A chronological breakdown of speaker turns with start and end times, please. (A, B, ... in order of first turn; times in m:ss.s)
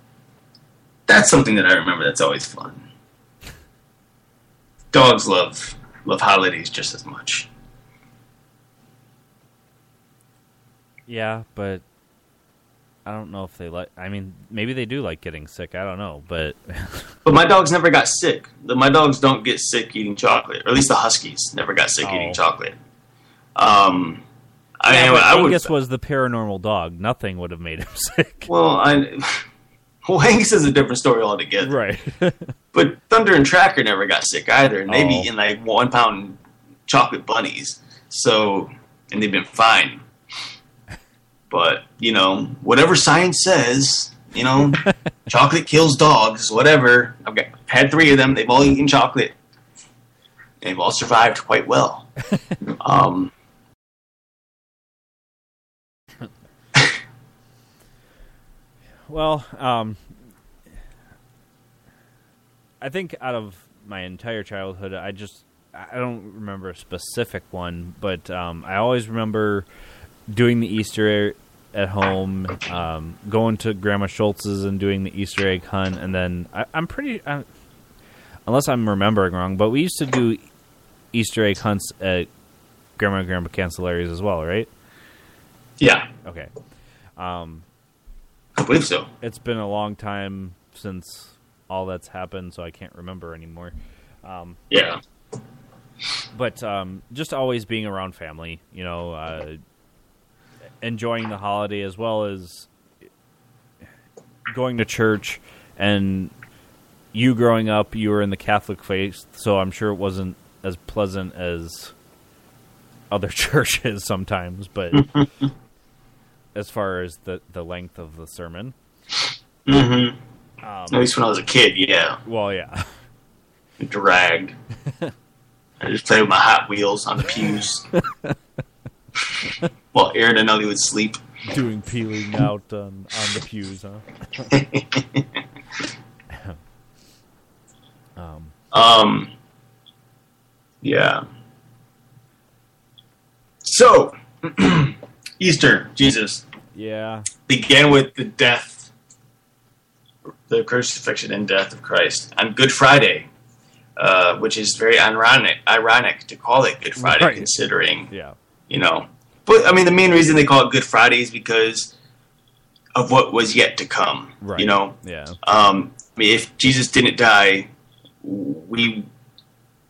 0:01.1-0:02.8 A
0:04.9-0:07.5 A
0:11.1-0:11.8 B
0:13.0-0:17.1 B
0:17.2-0:22.8 A
0:22.0-0:22.4 B
0:23.6-0:24.2 A
0:24.8-0:25.7 A
0:24.9-0:28.5 B
0:28.5-0:29.4 A
0:30.0-0:31.7 A
0:31.6-0:32.5 B
0:32.7-0:40.0 A
0:34.9-0:35.3 B
0:41.5-0:49.3 A
0:50.6-0:52.1 A
0:52.8-0:53.3 A
0:59.1-1:00.1 B
1:02.8-1:09.6 B
1:10.3-1:17.5 B
1:18.5-1:20.4 B
1:21.1-1:22.3 B
1:23.0-1:24.7 B
1:25.8-1:26.1 A
1:26.2-1:26.5 B
1:27.2-1:27.6 B
1:28.6-1:29.1 A
1:29.2-1:34.6 B
1:34.7-1:35.0 A
1:36.3-1:39.6 B
1:40.8-1:42.7 B
1:44.5-1:46.3 B
1:47.1-1:51.9 B
1:53.1-1:55.0 B
1:55.0-1:55.2 A
1:56.5-1:58.7 B
1:59.7-2:00.2 A
2:00.6-2:01.1 B
2:00.9-2:02.2 A
2:02.2-2:02.9 B
2:03.8-2:04.6 A
2:05.8-2:07.8 A
2:09.9-2:11.2 A
2:11.4-2:14.4 B
2:14.5-2:15.0 A
2:16.3-2:16.6 B
2:18.2-2:18.5 B
2:18.7-2:19.3 A
2:20.8-2:21.2 A
2:23.6-2:26.4 A
2:26.7-2:27.3 B
2:27.5-2:28.9 A
2:30.5-2:33.3 A
2:34.0-2:38.1 A
2:37.0-2:37.5 B
2:38.1-2:38.4 B
2:38.7-2:41.9 A
2:42.9-2:47.7 A
2:44.4-2:45.4 B
2:48.2-2:49.0 A